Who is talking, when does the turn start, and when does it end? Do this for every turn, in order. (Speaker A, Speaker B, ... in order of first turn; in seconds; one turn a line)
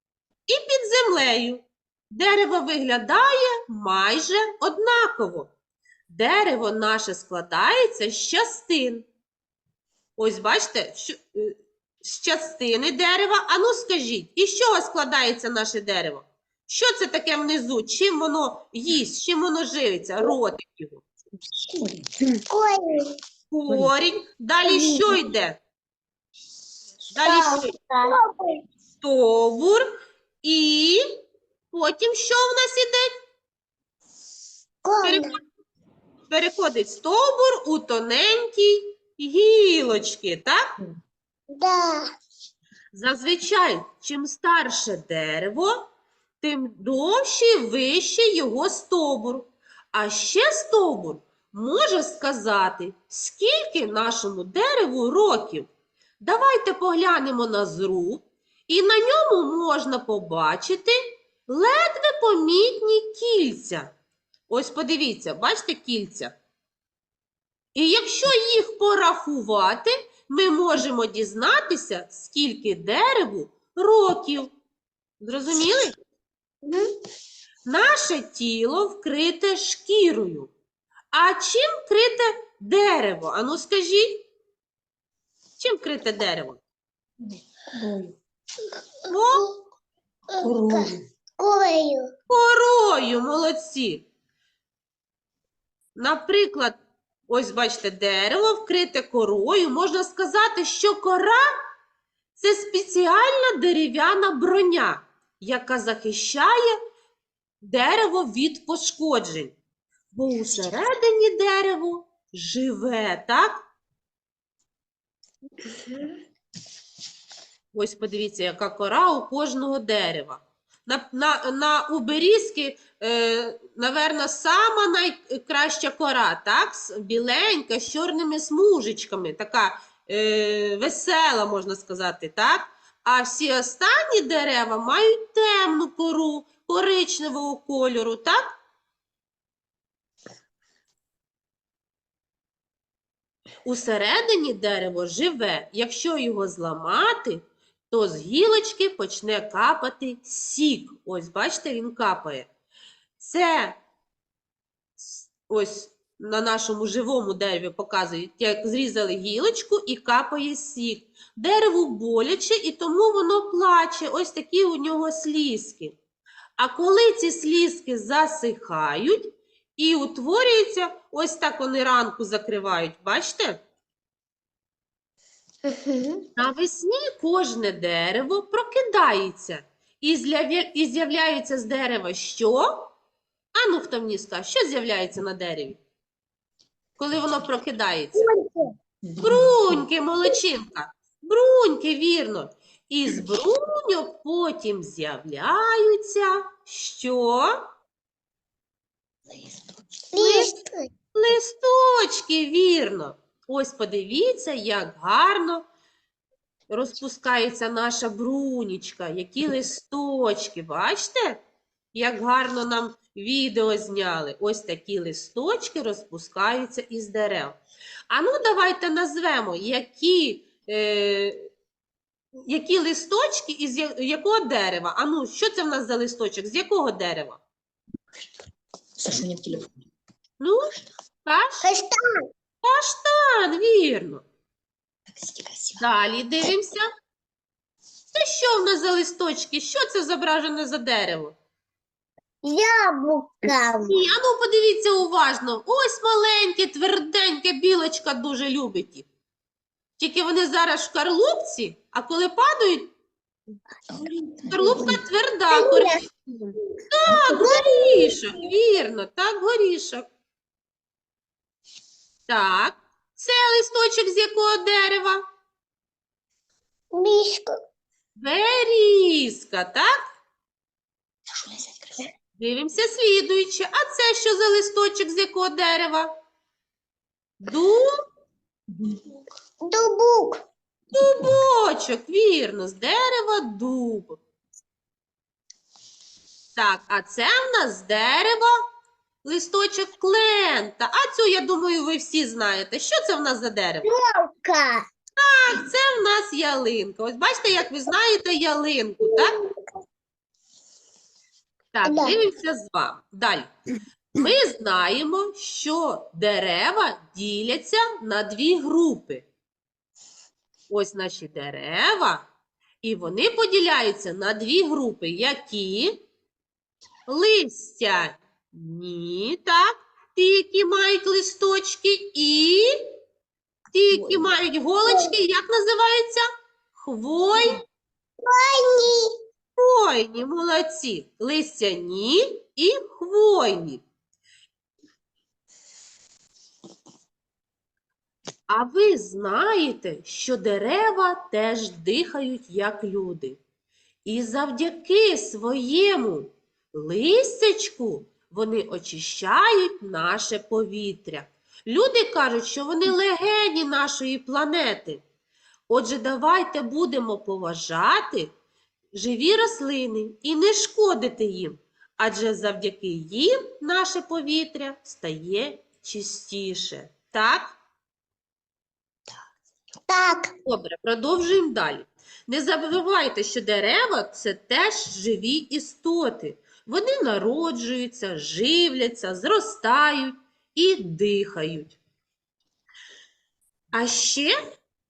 Speaker A: 0.5-5.5
Speaker A: 6.1-9.1
Speaker A: 10.2-21.0
Speaker B: 21.7-22.1
Speaker C: 22.5-23.1
Speaker A: 23.5-25.6
Speaker B: 23.7-23.9
Speaker C: 24.7-25.1
Speaker A: 27.1-27.7
Speaker C: 27.2-28.2
Speaker A: 29.0-29.9
Speaker A: 30.4-31.0
Speaker A: 31.7-33.1
Speaker C: 34.8-35.3
Speaker A: 35.0-35.4
Speaker A: 36.3-40.6
Speaker C: 41.5-42.0
Speaker A: 42.9-45.9
Speaker A: 46.4-55.7
Speaker A: 56.2-63.9
Speaker A: 64.5-66.3
Speaker A: 67.7-74.5
Speaker A: 75.2-76.0
Speaker A: 77.7-80.5
Speaker A: 81.1-84.2
Speaker A: 85.6-86.6
Speaker B: 87.2-88.2
Speaker A: 89.1-89.5
Speaker C: 90.3-92.1
Speaker B: 90.4-91.0
Speaker A: 92.3-94.0
Speaker A: 96.0-96.7
Speaker A: 97.3-101.4
Speaker A: 102.3-106.7
Speaker A: 107.6-109.5
Speaker A: 110.1-113.6
Speaker A: 117.7-138.6
Speaker A: 143.6-152.5
Speaker A: 153.2-153.8
Speaker A: 155.0-166.0
Speaker A: 166.6-173.6
Speaker C: 175.7-176.2
Speaker A: 176.3-182.9
Speaker A: 183.5-185.8
Speaker A: 187.0-188.3
Speaker C: 188.2-188.6
Speaker B: 189.0-189.8
Speaker A: 189.2-197.6
Speaker B: 199.3-199.8
Speaker C: 200.1-200.9
Speaker A: 200.2-200.5
Speaker A: 201.1-205.6
Speaker A: 206.7-211.4
Speaker A: 211.9-221.4
Speaker A: 222.5-227.4
Speaker B: 229.0-229.7
Speaker A: 230.4-230.7
Speaker A: 231.2-231.7
Speaker C: 231.6-232.0
Speaker A: 232.6-234.2
Speaker B: 235.1-235.9
Speaker A: 235.8-236.9
Speaker A: 238.1-241.3
Speaker C: 242.4-244.0
Speaker A: 243.8-249.1
Speaker A: 250.0-252.9
Speaker B: 253.9-255.0
Speaker A: 254.5-256.1
Speaker C: 255.6-256.4
Speaker A: 256.9-260.0
Speaker B: 257.1-257.8
Speaker C: 257.3-258.0
Speaker A: 262.3-265.2
Speaker C: 266.9-267.5
Speaker A: 268.1-269.9
Speaker B: 271.3-272.1
Speaker A: 272.4-276.1
Speaker A: 277.4-277.9
Speaker B: 278.7-279.2
Speaker C: 279.6-280.4
Speaker A: 280.9-284.2
Speaker B: 280.9-281.3
Speaker A: 286.6-288.5
Speaker A: 289.2-293.9
Speaker C: 293.8-294.8
Speaker A: 295.2-299.3
Speaker C: 299.0-299.5
Speaker A: 301.7-303.5
Speaker C: 301.8-302.2
Speaker A: 304.1-309.2
Speaker A: 310.7-312.2
Speaker A: 312.8-316.0
Speaker A: 317.1-322.7
Speaker A: 323.7-327.6
Speaker B: 323.9-324.3
Speaker C: 324.8-325.1
Speaker C: 328.2-329.1
Speaker A: 329.6-333.8
Speaker A: 338.5-343.4
Speaker A: 344.0-355.0
Speaker A: 355.7-358.3
Speaker A: 358.9-367.6
Speaker C: 369.9-370.3
Speaker A: 370.4-381.8
Speaker A: 383.7-384.4